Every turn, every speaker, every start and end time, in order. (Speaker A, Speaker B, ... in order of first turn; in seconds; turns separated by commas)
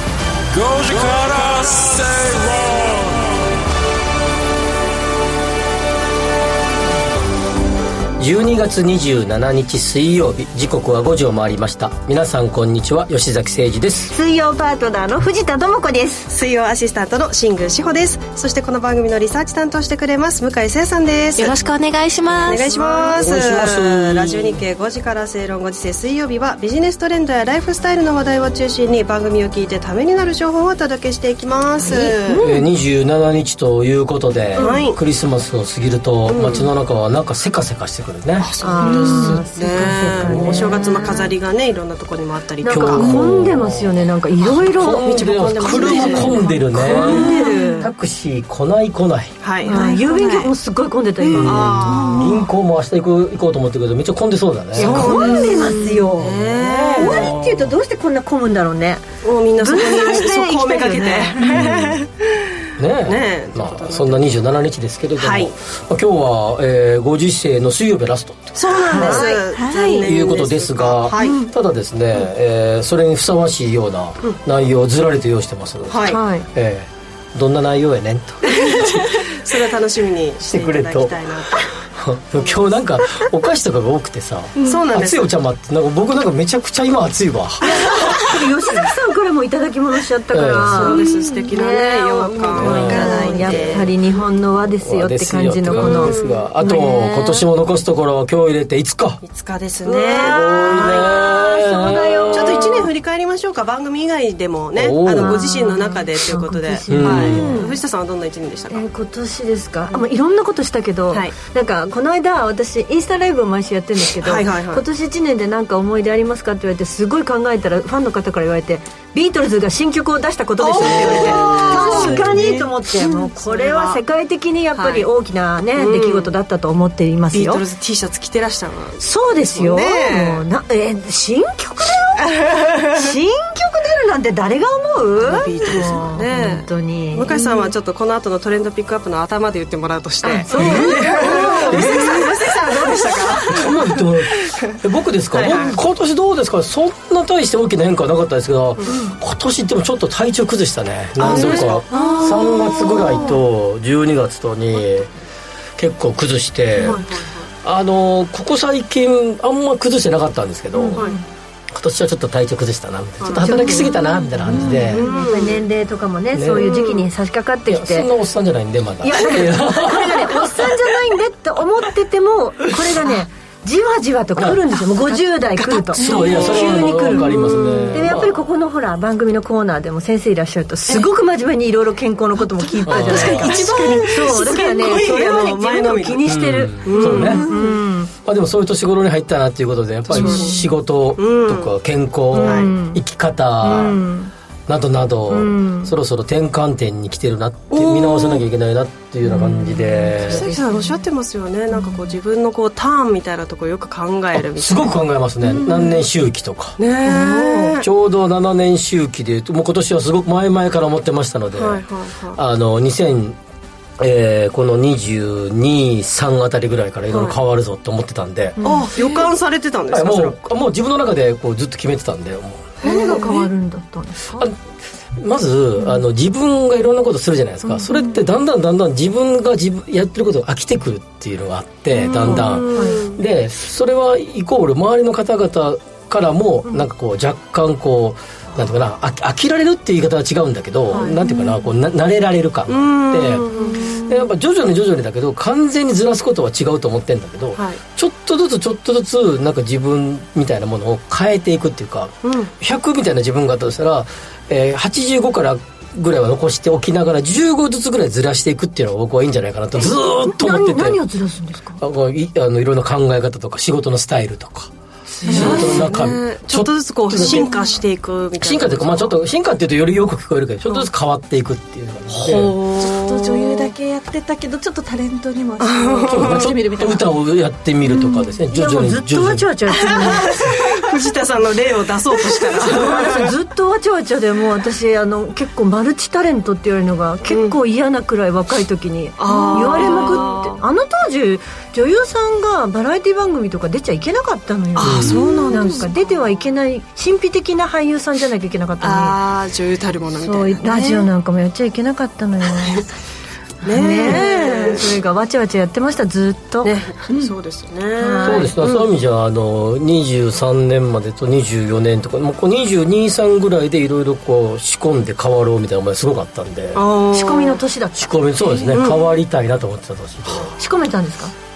Speaker A: 0.5-3.4, Speaker B: 8.2-14.1, Speaker C: 14.1-16.3, Speaker D: 16.3-21.6, Speaker E: 21.4-23.1, Speaker D: 22.4-32.4, Speaker B: 23.2-24.6, Speaker C: 31.8-32.6, Speaker B: 32.4-39.3, Speaker C: 34.6-34.9, Speaker D: 34.6-35.0, Speaker D: 36.3-36.7, Speaker D: 38.4-43.3, Speaker C: 38.6-41.3, Speaker E: 38.8-39.3, Speaker B: 40.2-40.8, Speaker C: 42.6-47.9, Speaker B: 42.7-49.4, Speaker D: 44.8-47.9, Speaker E: 47.0-47.6, Speaker D: 49.4-49.8, Speaker E: 49.6-50.5, Speaker C: 49.7-51.7, Speaker D: 51.2-52.4, Speaker B: 51.3-55.4, Speaker E: 51.9-52.3, Speaker D: 54.8-57.3, Speaker C: 54.8-59.1, Speaker B: 56.3-57.7, Speaker D: 59.2-62.5, Speaker C: 59.6-61.6, Speaker B: 61.4-62.0, Speaker B: 62.8-69.2, Speaker D: 63.0-64.4, Speaker D: 65.2-65.5, Speaker D: 68.5-71.5, Speaker C: 68.9-69.4, Speaker E: 69.5-70.1, Speaker B: 69.8-79.1, Speaker E: 71.2-71.5, Speaker D: 75.9-76.2, Speaker C: 76.1-76.5, Speaker D: 78.6-81.7, Speaker B: 80.4-87.6, Speaker D: 84.7-85.3, Speaker C: 87.7-97.5, Speaker B: 90.3-91.0, Speaker D: 90.7-93.9, Speaker B: 92.5-94.0, Speaker B: 94.8-99.2, Speaker D: 95.7-96.9, Speaker D: 99.2-101.1, Speaker C: 99.9-102.7, Speaker B: 100.1-102.9, Speaker D: 102.3-108.8, Speaker B: 104.8-105.5, Speaker C: 105.2-107.7, Speaker B: 106.9-107.5, Speaker E: 107.3-107.7, Speaker C: 108.7-127.6, Speaker D: 114.2-114.8, Speaker D: 120.6-124.0, Speaker B: 120.8-122.6, Speaker D: 124.8-125.1, Speaker D: 125.7-126.3, Speaker D: 127.3-130.4, Speaker C: 129.0-137.3, Speaker D: 132.2-133.0, Speaker D: 135.2-144.7, Speaker E: 137.3-137.6, Speaker C: 140.2-143.2, Speaker B: 140.5-142.3, Speaker B: 143.5-155.1, Speaker D: 145.3-145.8, Speaker C: 148.9-149.2, Speaker D: 151.2-153.3, Speaker E: 151.3-153.3, Speaker B: 155.8-157.0, Speaker D: 156.8-157.5, Speaker B: 157.6-161.1, Speaker C: 160.7-161.1, Speaker D: 160.9-161.2, Speaker B: 161.7-165.1, Speaker D: 163.2-163.9, Speaker C: 163.4-168.1, Speaker D: 164.5-165.6, Speaker B: 166.3-166.7, Speaker D: 166.6-167.1, Speaker B: 167.7-170.7, Speaker C: 169.0-188.1, Speaker B: 174.4-174.6, Speaker E: 175.9-176.6, Speaker D: 176.0-176.4, Speaker B: 176.0-178.3, Speaker D: 177.6-178.0, Speaker B: 182.9-183.6, Speaker D: 183.0-187.6, Speaker E: 183.0-184.3, Speaker B: 186.2-187.4, Speaker E: 187.2-187.7, Speaker B: 188.2-194.0, Speaker D: 190.1-190.6, Speaker C: 190.1-190.7, Speaker D: 191.2-191.8, Speaker C: 192.3-193.0, Speaker D: 192.4-192.7, Speaker C: 193.6-194.3, Speaker B: 194.7-200.5, Speaker C: 195.3-195.9, Speaker D: 197.7-198.4, Speaker C: 199.3-200.9, Speaker D: 200.2-205.0, Speaker C: 201.7-202.0, Speaker B: 204.3-206.8, Speaker C: 205.6-205.9, Speaker D: 206.8-207.9, Speaker C: 207.1-207.8, Speaker B: 207.8-211.8, Speaker D: 211.6-212.4, Speaker B: 212.3-213.4, Speaker B: 214.0-218.6, Speaker D: 217.1-217.4, Speaker E: 218.6-218.9, Speaker C: 218.6-219.2, Speaker D: 218.7-220.4, Speaker B: 219.9-222.7, Speaker C: 222.8-224.5, Speaker D: 222.8-223.3, Speaker B: 225.2-243.5, Speaker C: 227.6-228.2, Speaker D: 232.1-233.2, Speaker C: 232.2-233.0, Speaker D: 240.9-241.2, Speaker D: 242.7-243.9, Speaker C: 243.5-244.1, Speaker B: 244.0-261.0, Speaker D: 252.2-252.5, Speaker C: 260.2-261.8, Speaker B: 261.8-264.7, Speaker C: 265.1-265.8, Speaker B: 265.2-267.5, Speaker D: 265.3-269.2, Speaker E: 265.3-265.8, Speaker B: 268.4-272.6, Speaker D: 272.1-273.7, Speaker E: 272.8-277.1, Speaker D: 275.6-276.5, Speaker B: 276.1-279.5, Speaker C: 278.5-280.3, Speaker D: 279.8-283.3, Speaker C: 282.7-299.2, Speaker D: 287.3-287.6, Speaker D: 289.2-290.6, Speaker E: 289.3-290.3, Speaker D: 294.8-296.4, Speaker B: 294.8-295.3, Speaker E: 295.2-295.9, Speaker D: 298.8-301.1, Speaker C: 300.2-302.9, Speaker D: 303.6-304.9, Speaker C: 303.6-306.7, Speaker D: 306.6-308.9, Speaker E: 307.1-307.4, Speaker C: 308.0-308.5, Speaker B: 308.2-316.9, Speaker D: 316.7-317.6, Speaker C: 317.1-318.8, Speaker B: 318.0-320.6, Speaker D: 318.7-319.0, Speaker C: 320.6-321.3